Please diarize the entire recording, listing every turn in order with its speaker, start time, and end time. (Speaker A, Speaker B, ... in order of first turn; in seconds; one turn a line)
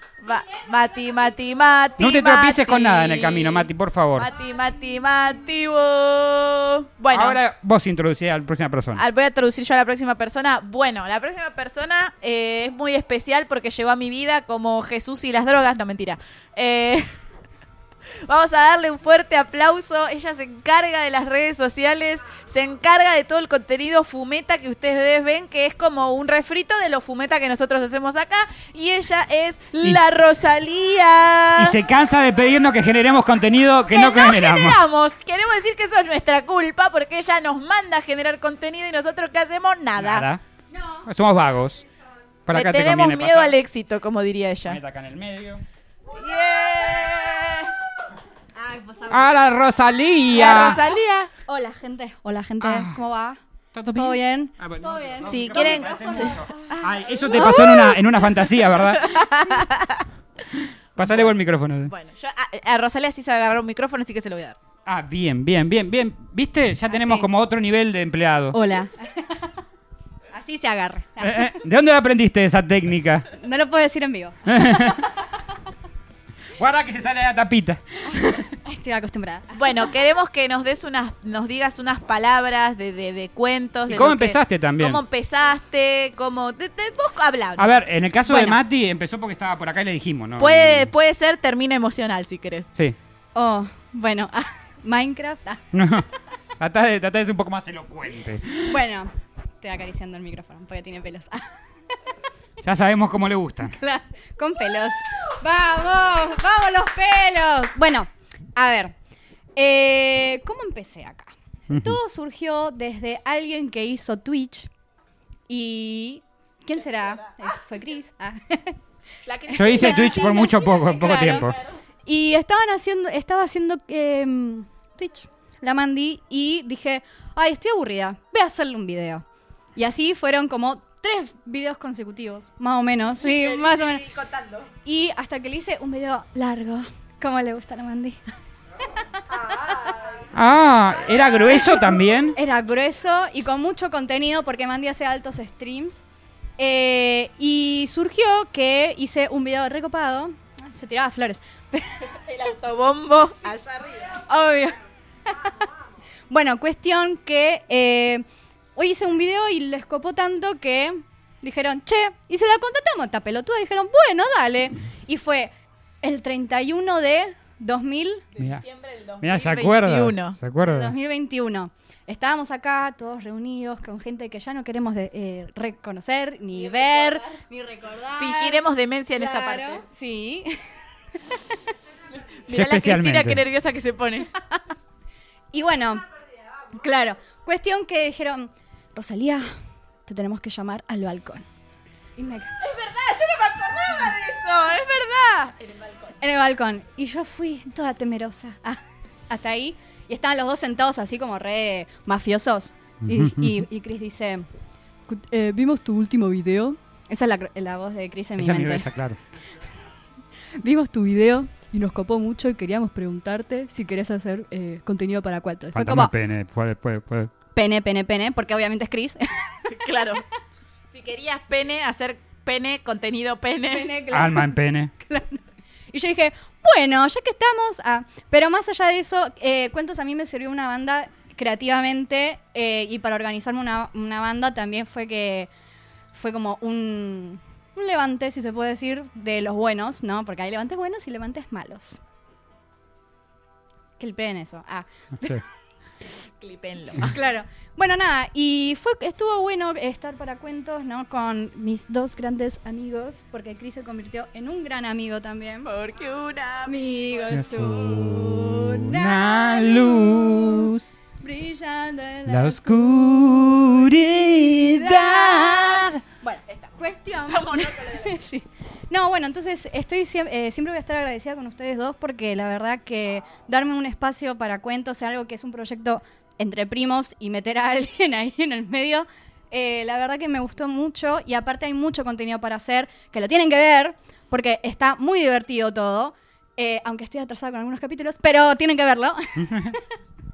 Speaker A: 0.2-7.4
Speaker B: 2.0-4.3
Speaker B: 7.1-9.0
Speaker A: 9.0-17.1
Speaker A: 18.2-31.8
Speaker B: 31.6-34.8
Speaker A: 33.9-40.3
Speaker B: 40.0-40.4
Speaker C: 40.7-41.1
Speaker B: 41.1-41.8
Speaker B: 42.5-43.6
Speaker A: 42.5-44.8
Speaker B: 44.7-45.6
Speaker A: 46.1-47.7
Speaker C: 48.6-49.3
Speaker B: 49.1-50.8
Speaker A: 50.3-51.3
Speaker C: 51.5-53.4
Speaker B: 52.6-53.0
Speaker B: 53.7-59.1
Speaker C: 53.9-56.5
Speaker A: 55.3-57.9
Speaker C: 57.3-57.9
Speaker A: 59.0-60.0
Speaker B: 60.5-61.9
Speaker A: 61.0-61.3
Speaker A: 61.9-64.6
Speaker B: 64.9-68.6
Speaker C: 66.9-67.3
Speaker C: 68.5-69.5
Speaker C: 70.3-71.6
Speaker B: 71.2-73.3
Speaker C: 73.3-75.3
Speaker B: 74.5-75.0
Speaker B: 76.6-78.5
Speaker C: 78.1-79.8
Speaker A: 79.5-87.7
Speaker B: 83.9-85.0
Speaker B: 87.6-90.9
Speaker A: 88.3-88.6
Speaker A: 90.4-92.7
Speaker C: 93.3-95.7
Speaker B: 95.7-96.1
Speaker B: 96.6-98.8
Speaker C: 98.7-101.5
Speaker B: 102.6-103.8
Speaker C: 103.7-108.9
Speaker C: 109.6-114.7
Speaker B: 111.7-112.0
Speaker C: 115.5-118.8
Speaker A: 119.2-121.8
Speaker B: 119.5-121.6
Speaker C: 119.8-121.5
Speaker C: 122.1-129.2
Speaker C: 129.8-134.1
Speaker A: 133.2-134.7
Speaker C: 134.8-138.3
Speaker C: 138.9-139.6
Speaker A: 139.3-140.2
Speaker B: 140.3-142.4
Speaker C: 141.5-146.0
Speaker C: 146.6-152.2
Speaker A: 152.2-154.2
Speaker C: 154.3-155.7
Speaker C: 156.3-168.2
Speaker A: 168.3-170.4
Speaker B: 168.4-168.6
Speaker B: 169.2-170.9
Speaker C: 170.6-178.6
Speaker A: 176.6-177.2
Speaker A: 178.2-179.8
Speaker C: 179.2-180.6
Speaker C: 181.3-181.6
Speaker A: 182.5-184.3
Speaker B: 182.5-183.4
Speaker C: 185.5-186.1
Speaker C: 186.7-189.5
Speaker C: 190.1-191.5
Speaker C: 192.2-192.5
Speaker A: 192.6-196.2
Speaker C: 196.2-204.5
Speaker B: 203.0-203.6
Speaker C: 205.1-208.9
Speaker B: 208.4-209.2
Speaker C: 210.6-216.1
Speaker B: 215.8-217.3
Speaker C: 217.5-219.7
Speaker A: 219.7-220.2
Speaker A: 220.9-223.9
Speaker C: 223.7-235.5
Speaker B: 224.1-224.9
Speaker C: 236.1-242.0
Speaker C: 244.0-245.4
Speaker A: 246.4-247.2
Speaker C: 247.0-255.7
Speaker A: 255.7-256.7
Speaker C: 256.7-289.8
Speaker B: 257.3-260.9
Speaker B: 262.3-265.8
Speaker A: 264.9-265.9
Speaker A: 266.5-268.2
Speaker B: 289.4-289.7